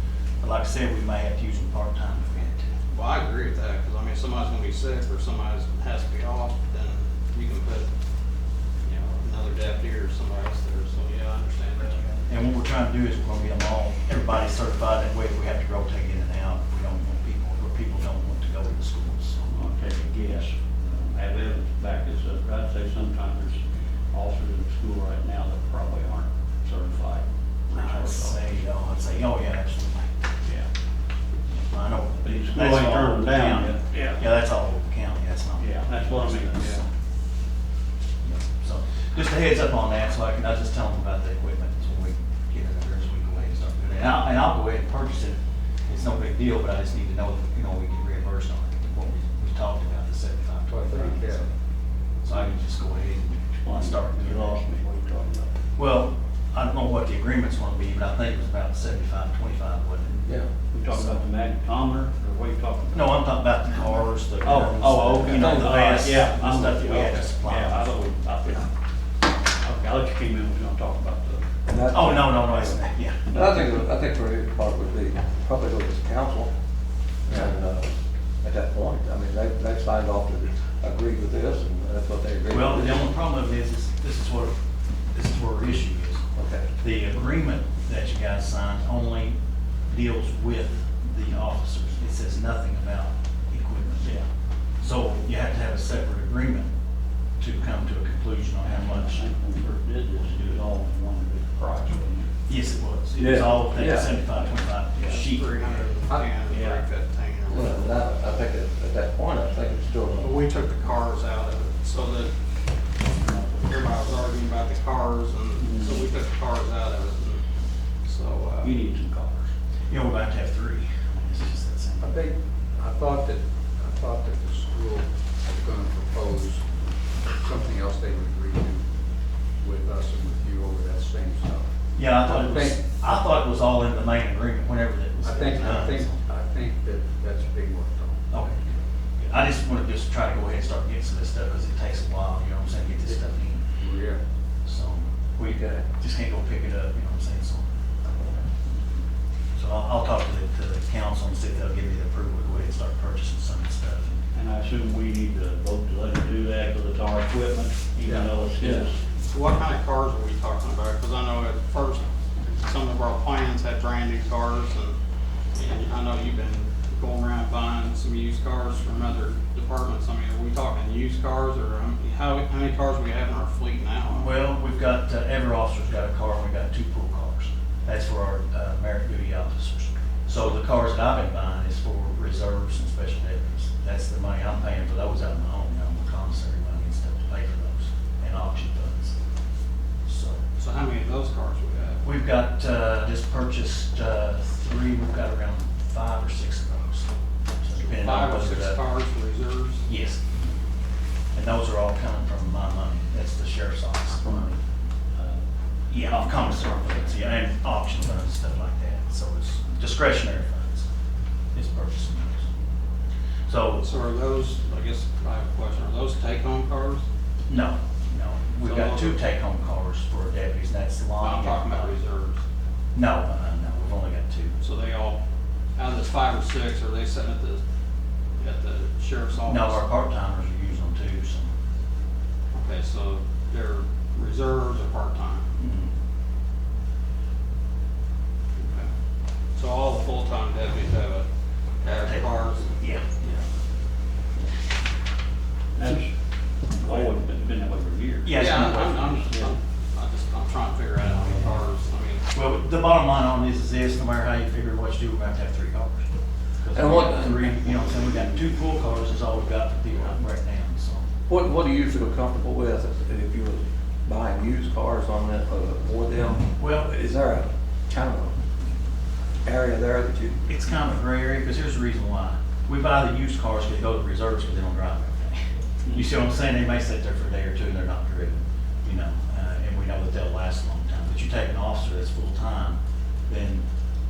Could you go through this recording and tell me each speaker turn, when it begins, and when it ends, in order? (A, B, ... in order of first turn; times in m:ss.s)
0:00.4-0:02.7 A
0:02.9-0:07.9 B
0:08.8-0:12.2 B
0:12.2-0:19.4 A
0:19.4-0:28.4 C
0:27.7-0:30.1 A
0:31.5-0:36.8 A
0:32.2-0:34.2 C
0:35.6-0:36.8 C
0:38.2-0:51.5 A
0:50.7-0:51.5 D
0:52.2-0:54.6 A
0:53.6-0:55.5 C
0:55.8-1:00.3 A
1:00.7-1:03.2 C
1:00.9-1:01.2 A
1:02.9-1:08.0 A
1:04.4-1:08.7 C
1:05.2-1:05.7 E
1:09.6-1:12.2 C
1:11.7-1:16.5 E
1:11.9-1:13.2 A
1:13.3-1:13.7 C
1:17.3-1:23.1 E
1:22.5-1:24.5 A
1:25.1-1:26.2 A
1:26.4-1:26.7 E
1:26.8-1:29.4 A
1:29.9-1:34.1 A
1:34.8-1:36.7 A
1:37.4-1:39.2 A
1:38.6-1:42.3 C
1:42.5-1:45.9 A
1:43.1-1:44.1 E
1:44.9-1:45.2 C
1:45.0-1:48.2 B
1:46.5-1:46.8 C
1:47.5-1:50.5 E
1:50.2-1:52.3 B
1:53.0-1:54.2 C
1:53.7-1:57.4 B
1:55.6-1:56.1 C
1:58.0-1:58.7 B
1:58.6-1:59.5 C
1:59.9-2:02.2 A
2:02.0-2:06.6 D
2:07.2-2:08.8 D
2:09.6-2:11.6 D
2:11.9-2:16.2 A
2:12.2-2:12.9 D
2:15.2-2:18.2 D
2:18.3-2:23.6 A
2:23.8-2:24.2 D
2:24.6-2:27.6 A
2:25.4-2:25.8 E
2:29.6-2:34.2 A
2:34.3-2:39.0 C
2:38.6-2:38.9 E
2:39.2-2:45.0 B
2:45.5-2:54.3 B
2:54.1-3:09.2 A
3:10.0-3:10.4 A
3:10.6-3:12.0 B
3:12.0-3:17.1 A
3:17.6-3:18.8 A
3:17.8-3:19.8 B
3:19.8-3:20.4 A
3:21.3-3:24.6 A
3:25.9-3:30.9 A
3:31.5-3:32.5 A
3:33.5-3:33.8 A
3:33.8-3:37.0 B
3:37.5-3:41.9 A
3:38.6-3:39.2 B
3:41.2-3:42.4 B
3:42.9-3:44.5 A
3:44.6-3:45.2 B
3:45.8-3:47.6 B
3:48.4-3:49.8 B
3:49.4-3:51.5 A
3:52.5-3:55.4 B
3:55.6-3:55.9 A
3:58.6-3:58.9 B
3:59.6-4:01.2 B
4:01.8-4:02.7 B
4:02.0-4:03.3 A
4:05.8-4:06.1 C
4:06.6-4:09.5 C
4:06.8-4:07.1 A
4:08.2-4:09.0 A
4:08.3-4:12.2 B
4:12.3-4:16.0 A
4:16.6-4:21.0 A
4:16.7-4:17.8 E
4:21.3-4:28.4 E
4:26.6-4:26.9 A
4:29.4-4:30.4 E
4:30.5-4:43.6 A